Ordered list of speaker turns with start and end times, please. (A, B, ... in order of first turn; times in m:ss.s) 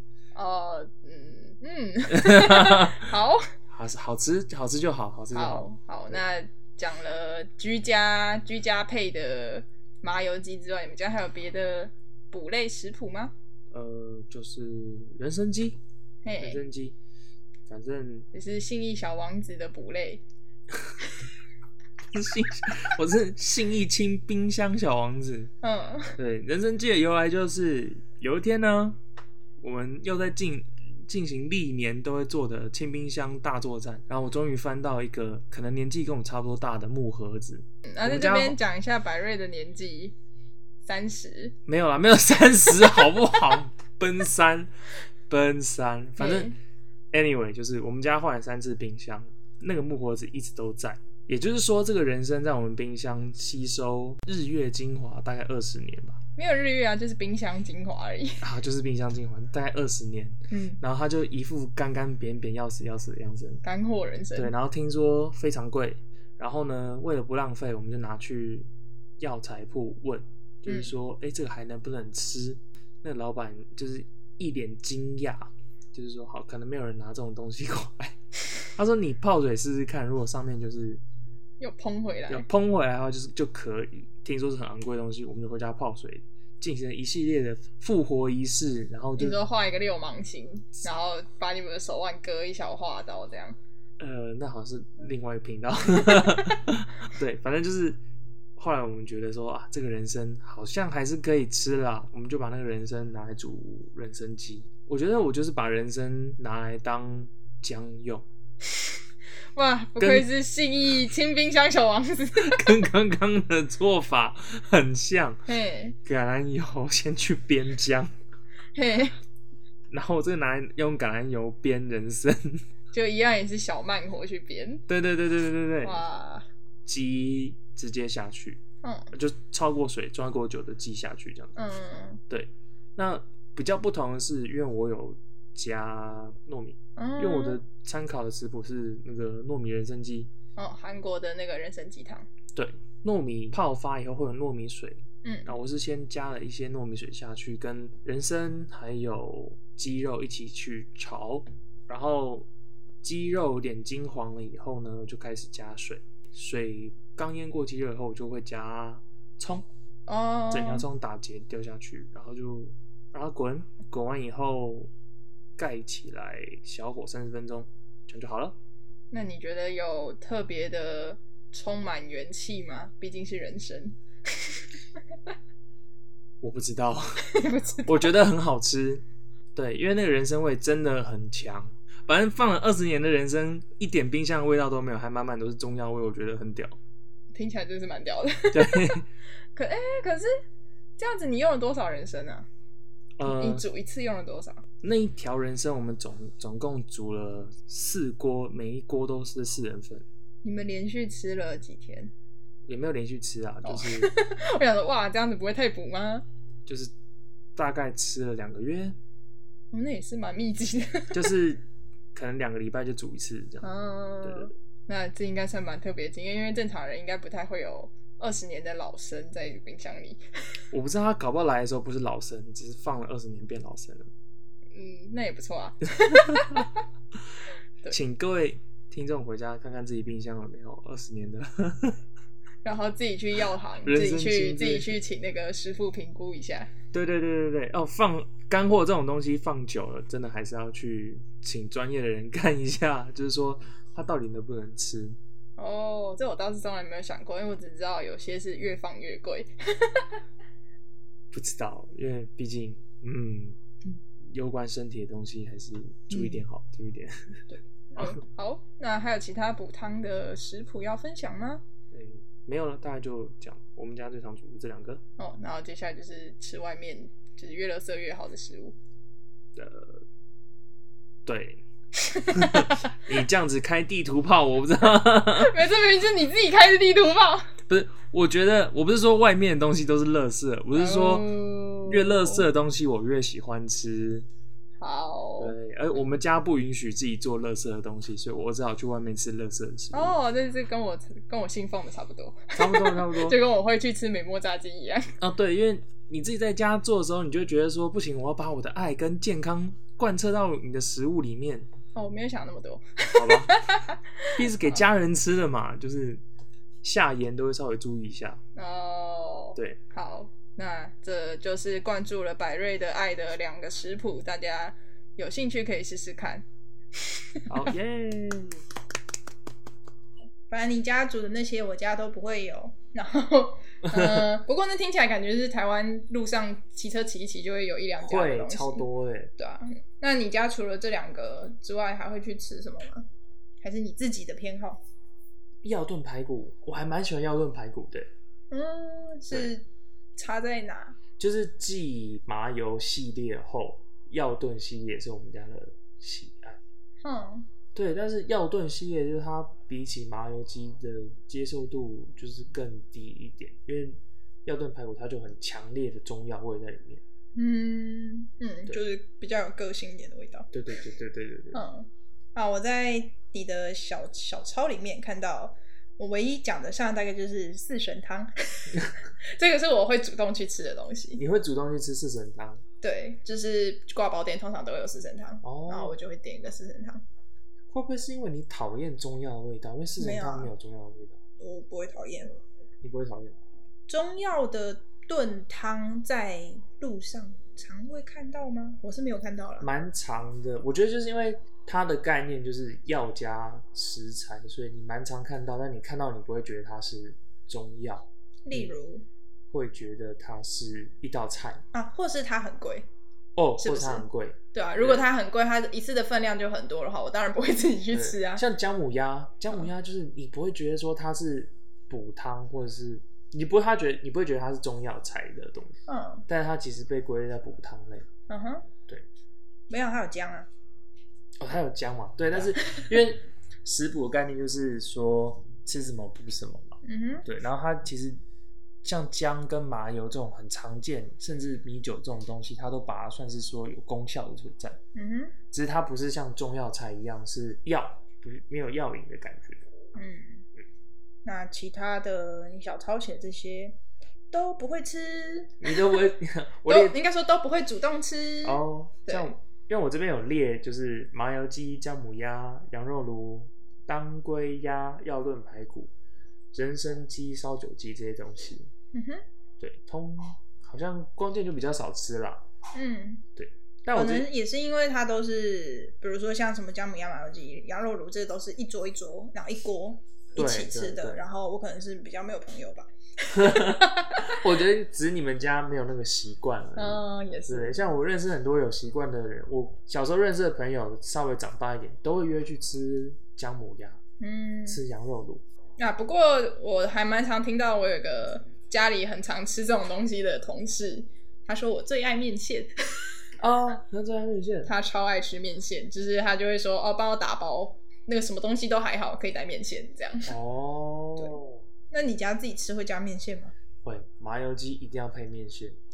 0:00.3-0:03.5 A
0:02.1-0:03.0 B
0:03.7-0:06.2 B
0:05.3-0:13.3 A
0:13.7-0:15.8 B
0:16.2-0:16.6 A
0:16.4-0:17.0 B
0:17.7-0:18.3 B
0:18.3-0:20.2 A
0:21.0-0:21.2 A
0:22.1-0:25.5 B
0:25.6-0:26.2 A
0:26.2-0:29.0 B
0:29.6-0:38.6 B
0:37.8-0:40.2 A
0:40.8-0:41.6 A
0:41.7-0:44.7 B
0:45.3-0:46.5 B
0:46.2-0:46.6 A
0:47.1-0:56.2 B
0:56.4-0:58.4 A
0:58.4-1:03.6 B
1:00.5-1:00.8 A
1:03.6-1:04.5 A
1:04.4-1:08.7 B
1:09.2-1:18.2 B
1:10.7-1:10.9 A
1:18.8-1:21.0 B
1:21.6-1:22.5 A
1:22.3-1:29.4 B
1:29.2-1:33.6 A
1:34.0-1:38.0 B
1:38.6-1:48.2 B
1:49.5-1:52.8 A
1:50.0-1:50.2 B
1:52.4-1:55.4 B
1:55.5-1:56.0 A
1:56.0-1:58.1 B
1:58.8-1:59.2 A
1:59.9-2:02.6 B
2:02.9-2:04.8 A
2:04.9-2:06.0 B
2:05.8-2:06.4 A
2:06.8-2:08.6 B
2:08.8-2:09.1 A
2:09.1-2:11.5 B
2:11.6-2:12.2 A
2:12.3-2:20.3 B
2:17.0-2:17.6 A
2:20.6-2:22.3 A
2:22.5-2:32.5 B
2:25.2-2:25.5 A
2:33.0-2:39.7 B
2:40.1-2:40.8 A
2:40.5-2:44.9 B
2:45.6-2:48.6 B
2:49.1-2:54.6 A
2:56.4-2:57.3 B
2:57.3-2:58.1 A
2:57.8-2:59.0 B
2:59.5-3:06.8 B
3:07.3-3:09.0 A
3:08.5-3:09.0 B
3:09.5-3:10.3 A
3:11.0-3:12.5 A
3:13.2-3:13.6 B
3:13.2-3:14.6 A
3:14.8-3:20.0 B
3:20.4-3:22.1 A
3:22.7-3:24.1 B
3:23.6-3:26.2 A
3:26.6-3:26.9 B
3:27.6-3:29.0 B
3:29.7-3:31.3 A
3:31.1-3:33.6 B
3:33.6-3:40.2 A
3:34.2-3:34.5 B
3:40.7-3:44.1 B
3:44.7-3:46.8 A
3:46.1-3:46.6 B
3:47.9-3:52.0 B
3:52.6-3:56.7 A
3:53.8-3:55.0 B
3:56.9-4:05.2 B
4:05.6-4:10.2 A
4:11.3-4:17.4 B
4:16.1-4:16.4 A
4:17.5-4:21.6 A
4:21.9-4:25.0 B
4:25.2-4:28.8 A
4:29.6-4:30.0 B
4:31.2-4:31.6 B
4:32.0-4:32.9 A
4:32.3-4:35.6 B
4:35.3-4:37.6 A
4:37.7-4:41.3 B
4:40.8-4:42.4 A
4:41.9-4:44.3 B
4:44.8-4:45.5 A
4:45.4-4:50.2 B
4:49.9-4:55.1 A
4:52.5-4:53.4 B
4:55.2-5:01.7 B
5:01.9-5:04.8 A
5:03.1-5:03.6 B
5:04.3-5:06.2 B
5:06.8-5:08.4 B
5:08.6-5:16.4 A
5:17.1-5:17.5 A
5:17.5-5:18.6 B
5:20.5-5:28.8 A
5:23.8-5:24.3 B
5:28.0-5:29.3 B
5:29.4-5:33.0 A
5:33.6-5:34.8 A
5:35.6-5:38.1 B
5:38.5-5:39.6 A
5:40.2-5:41.0 A
5:41.2-5:46.6 B
5:47.0-5:47.5 A
5:47.7-5:57.0 B
5:57.4-6:00.5 A
6:00.5-6:01.6 B
6:01.5-6:11.2 A
6:11.2-6:12.6 B
6:12.8-6:17.0 A
6:15.4-6:16.0 B
6:17.7-6:21.2 B
6:20.0-6:20.5 A
6:21.4-6:22.4 A
6:22.8-6:23.4 B
6:23.9-6:29.7 A
6:29.6-6:38.7 B
6:38.4-6:39.0 A
6:39.5-6:41.6 B
6:41.7-6:42.9 A
6:43.4-6:45.0 B
6:43.6-6:48.4 A
6:47.9-6:55.8 B
6:55.9-6:56.2 A
6:56.3-6:58.1 B
6:58.3-6:58.7 A
6:59.7-7:00.5 A
7:01.4-7:08.2 B
7:06.8-7:07.2 A
7:08.8-7:14.8 B
7:14.9-7:15.4 A
7:15.5-7:19.6 B
7:19.9-7:20.4 A
7:21.2-7:23.8 A
7:24.3-7:26.0 A
7:25.6-7:27.0 B
7:26.7-7:29.4 A
7:28.4-7:35.9 B
7:36.5-7:38.7 B
7:38.9-7:39.2 A
7:39.6-7:42.4 B
7:42.7-7:43.2 A
7:43.4-7:44.3 B
7:43.9-7:54.4 A
7:50.4-7:51.2 B
7:53.3-8:04.0 B
7:56.8-7:57.8 A
8:04.2-8:04.8 A
8:04.7-8:05.4 B
8:05.8-8:13.0 A
8:13.4-8:14.7 B
8:14.6-8:20.3 A
8:20.3-8:21.6 B
8:21.9-8:23.5 A
8:23.8-8:25.8 B